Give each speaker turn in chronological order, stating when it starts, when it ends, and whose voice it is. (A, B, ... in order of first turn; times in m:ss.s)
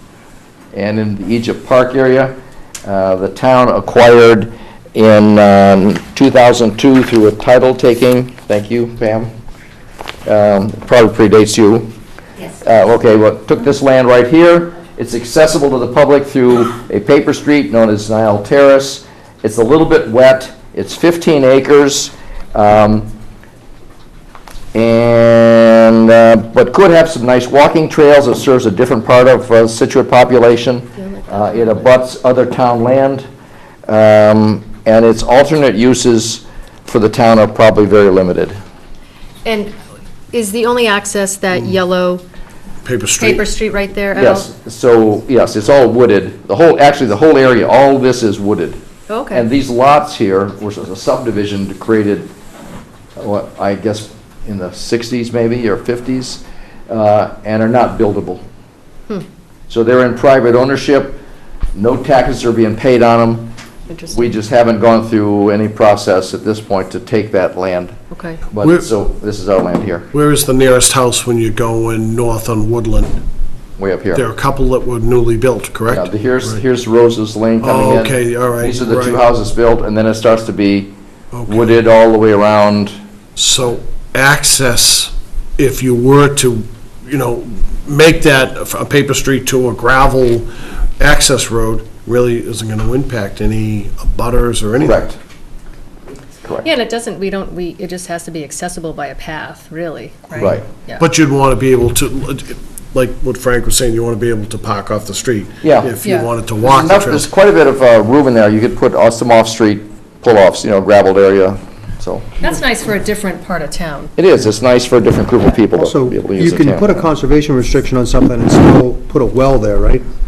0:00.7-0:02.3 A
0:02.8-0:09.3 A
0:10.2-0:11.9 A
0:12.6-0:23.1 A
0:24.7-0:33.3 A
0:31.0-0:31.9 B
0:33.9-0:38.6 A
0:39.4-0:39.7 B
0:40.3-0:42.2 B
0:41.5-0:41.8 C
0:42.8-0:43.4 C
0:43.2-0:44.5 B
0:44.1-0:48.8 A
0:49.1-0:49.5 B
0:49.3-0:52.3 A
0:53.2-0:58.4 A
0:59.7-1:01.2 A
1:01.7-1:03.5 A
1:03.9-1:04.3 B
1:04.1-1:08.0 A
1:08.1-1:08.4 B
1:08.5-1:10.1 A
1:10.1-1:13.2 C
1:13.8-1:14.2 A
1:14.1-1:16.6 C
1:15.9-1:20.9 A
1:17.6-1:19.2 C
1:21.3-1:21.7 C
1:21.5-1:22.9 A
1:23.4-1:30.5 C
1:31.0-1:35.1 C
1:34.8-1:35.2 A
1:36.6-1:41.0 B
1:40.4-1:40.6 A
1:41.0-1:47.2 C
1:45.6-1:45.9 A
1:46.6-1:52.2 A
1:52.4-1:54.1 B
1:54.2-1:57.1 A
1:55.7-2:00.0 D